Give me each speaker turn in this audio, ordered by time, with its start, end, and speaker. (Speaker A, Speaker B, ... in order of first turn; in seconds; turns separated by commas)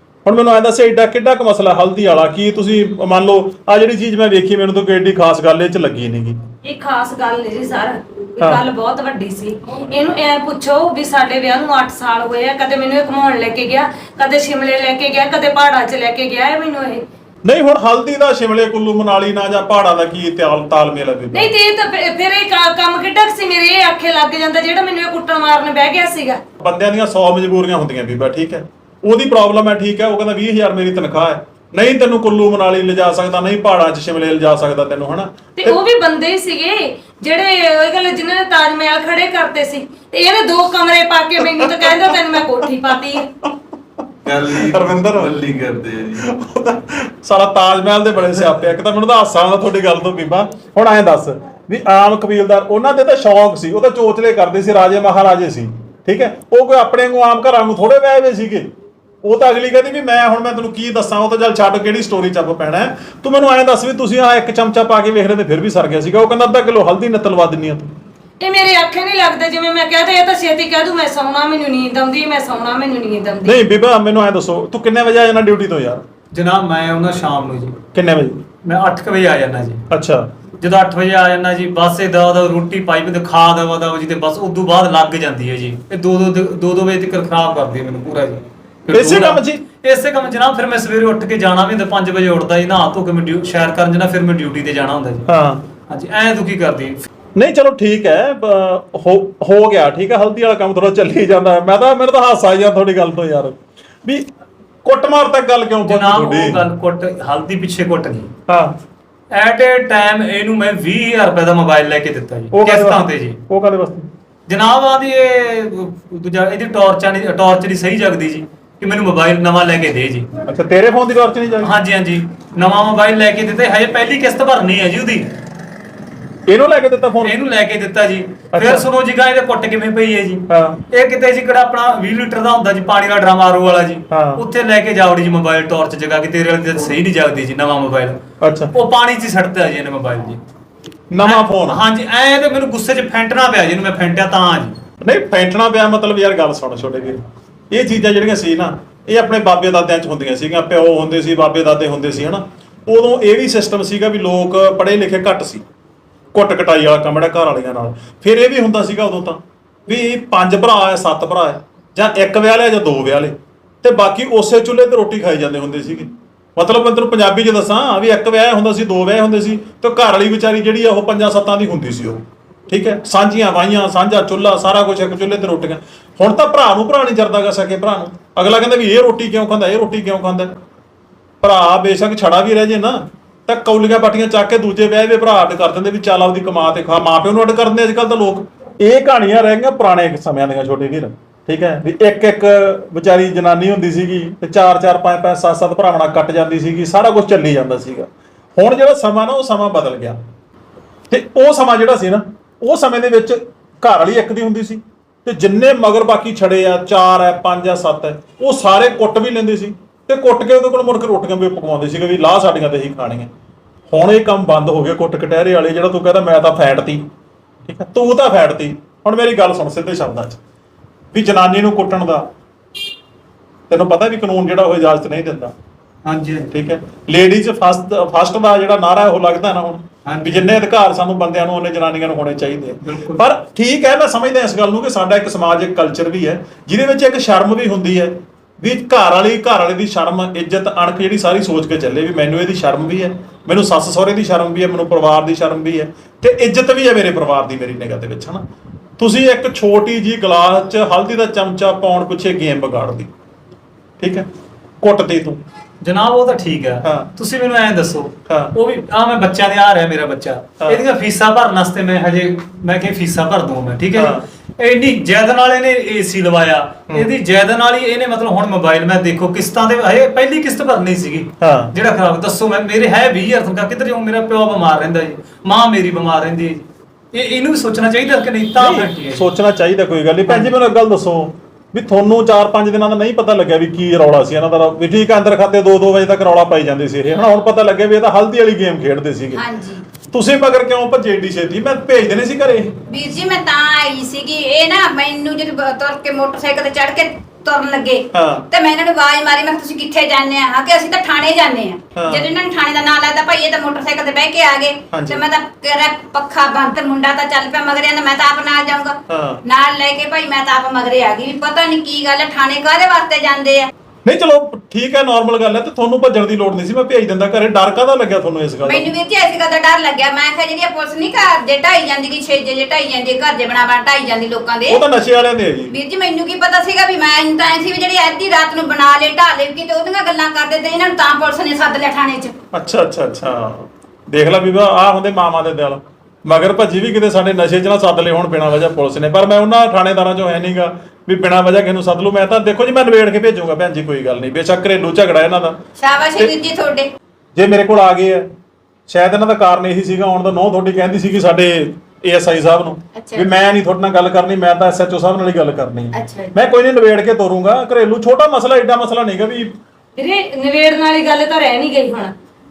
Speaker A: 0.2-6.4, Speaker B: 6.6-17.1, Speaker A: 17.4-21.5, Speaker B: 21.3-26.4, Speaker A: 26.6-35.8, Speaker B: 35.5-43.3, Speaker A: 41.4-42.2, Speaker C: 44.2-46.2, Speaker A: 44.5-45.3, Speaker A: 46.2-58.7, Speaker A: 59.2-67.9, Speaker B: 68.4-73.6, Speaker A: 73.4-76.0, Speaker D: 76.3-77.8, Speaker A: 77.9-78.4, Speaker D: 78.6-79.9, Speaker A: 79.9-80.3, Speaker D: 80.6-95.3, Speaker A: 88.9-89.6, Speaker A: 95.3-95.6, Speaker D: 95.9-97.0, Speaker A: 97.3-104.2, Speaker A: 104.8-106.6, Speaker D: 105.8-108.3, Speaker A: 108.5-108.8, Speaker D: 109.3-113.4, Speaker A: 112.5-114.1, Speaker D: 114.5-120.3, Speaker A: 120.4-121.7, Speaker D: 121.6-125.3, Speaker A: 126.5-127.3, Speaker D: 127.2-140.4, Speaker A: 128.5-128.9, Speaker A: 130.5-130.8, Speaker A: 134.1-134.4, Speaker A: 138.4-138.7, Speaker A: 141.1-141.8, Speaker D: 141.2-144.8, Speaker A: 145.0-155.6, Speaker A: 156.3-180.5, Speaker A: 181.4-200.2, Speaker A: 201.1-213.3, Speaker A: 213.9-217.1, Speaker A: 217.6-220.4, Speaker A: 221.1-222.3, Speaker A: 223.7-225.5, Speaker D: 226.0-226.5, Speaker A: 226.5-248.4, Speaker D: 230.1-230.5, Speaker D: 232.8-233.2, Speaker A: 249.0-253.1, Speaker A: 254.0-254.2, Speaker A: 254.8-255.4, Speaker D: 255.8-279.2, Speaker A: 256.8-257.1, Speaker A: 258.3-258.5, Speaker A: 263.9-264.2, Speaker A: 271.4-271.7, Speaker A: 278.6-289.4, Speaker D: 280.3-280.5, Speaker E: 289.4-289.8, Speaker A: 290.0-292.8, Speaker E: 292.9-313.7, Speaker A: 298.1-298.4, Speaker A: 301.9-302.3, Speaker A: 304.9-305.2, Speaker A: 309.1-309.4, Speaker A: 314.0-318.9, Speaker E: 318.6-324.8, Speaker A: 324.7-325.8, Speaker E: 325.7-332.3, Speaker A: 332.5-345.6, Speaker E: 345.8-346.9, Speaker A: 347.3-348.3, Speaker A: 348.9-359.5, Speaker E: 352.9-353.3, Speaker E: 355.9-356.3, Speaker B: 360.0-362.1